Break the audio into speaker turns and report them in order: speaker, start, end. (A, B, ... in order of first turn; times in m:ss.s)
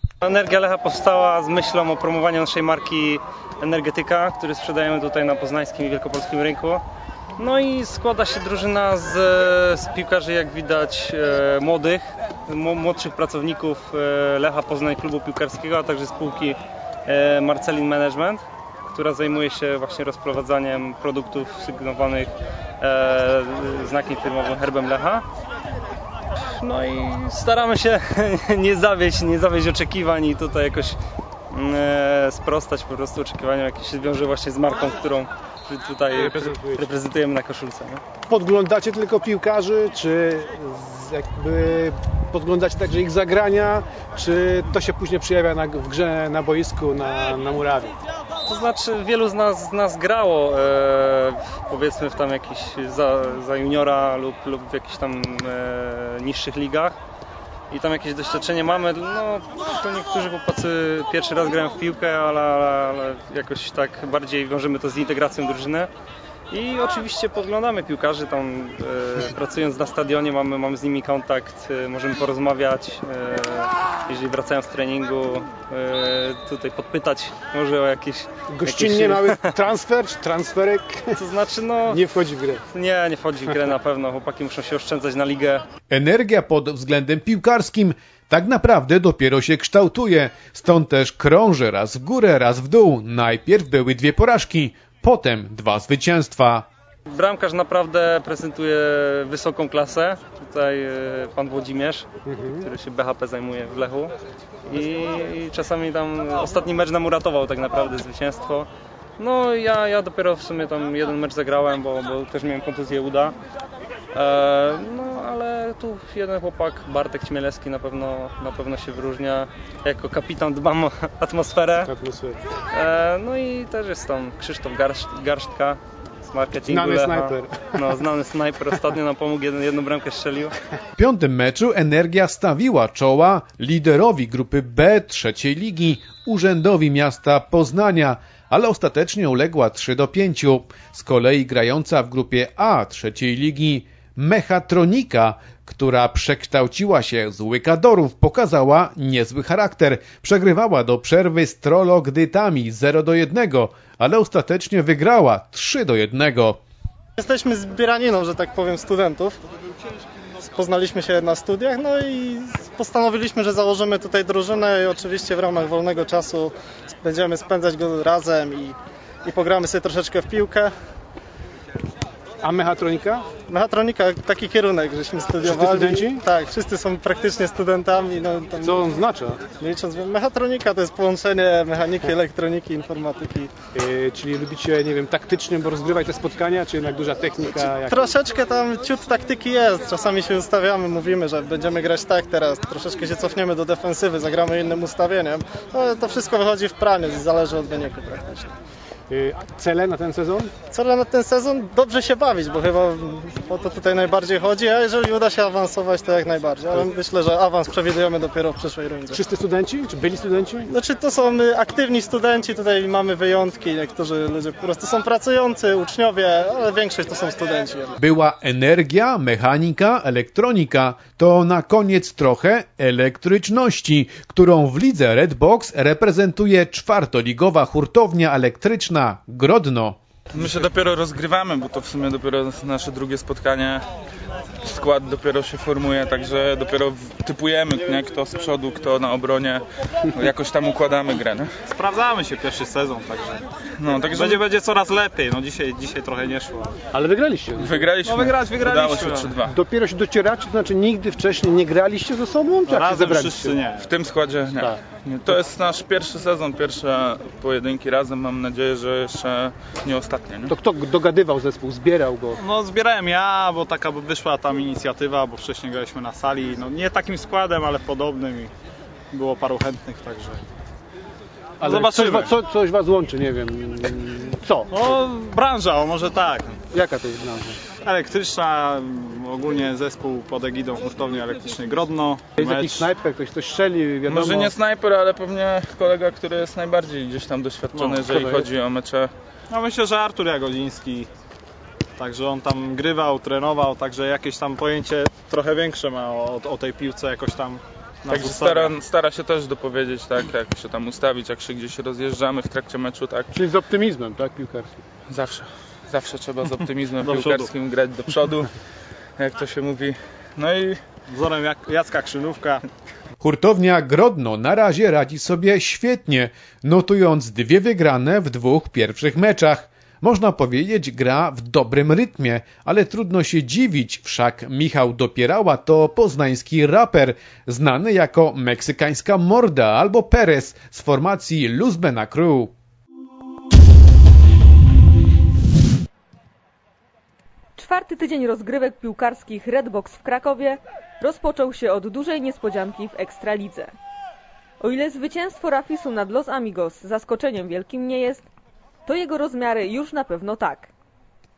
0:00.2-0:06.8 A
0:07.4-0:25.2 A
0:26.6-0:31.0 A
0:31.5-0:38.0 A
0:36.1-0:36.9 B
0:38.3-0:48.0 B
0:48.5-0:57.0 A
0:57.7-1:05.9 A
1:06.5-1:19.5 A
1:18.5-1:21.2 B
1:21.2-1:22.0 A
1:21.9-1:22.6 B
1:22.7-1:25.6 A
1:25.9-1:36.7 C
1:37.1-1:42.1 A
1:42.3-1:42.7 B
1:42.6-1:44.1 A
1:44.7-1:53.4 A
1:54.1-2:01.9 A
2:01.9-2:02.4 B
2:02.7-2:10.5 A
2:06.6-2:08.0 B
2:11.0-2:36.6 C
2:37.2-2:39.4 D
2:40.4-2:50.7 D
2:52.4-2:53.3 B
2:53.5-2:59.0 D
2:55.4-2:56.2 B
2:58.6-2:59.4 B
2:59.6-3:03.5 D
3:03.8-3:08.1 B
3:07.4-3:18.5 D
3:19.1-3:20.5 B
3:20.7-3:29.2 D
3:29.1-3:30.7 B
3:30.7-3:38.0 D
3:38.0-3:50.0 C
3:50.3-3:53.8 E
3:54.6-4:01.5 E
4:01.7-4:03.4 F
4:03.8-4:04.4 E
4:04.1-4:06.8 F
4:06.9-4:07.8 B
4:07.6-4:09.6 E
4:08.0-4:09.4 F
4:09.4-4:13.6 B
4:12.7-4:13.9 F
4:13.8-4:20.5 E
4:20.5-4:22.4 B
4:22.4-4:28.5 F
4:29.1-4:30.4 F
4:31.6-4:34.7 B
4:31.6-4:32.4 F
4:34.7-4:36.6 F
4:36.7-4:37.6 B
4:37.8-4:42.9 F
4:42.4-4:44.5 B
4:44.1-4:49.1 E
4:47.7-4:48.1 F
4:48.2-4:48.4 B
4:49.5-4:51.1 F
4:52.0-4:58.8 F
4:58.1-5:03.3 E
5:03.3-5:04.8 B
5:05.1-5:08.5 E
5:07.0-5:07.5 F
5:09.2-5:10.8 E
5:11.1-5:12.6 F
5:13.2-5:32.5 C
5:37.6-5:43.7 G
5:44.6-5:48.3 G
5:48.9-5:50.7 G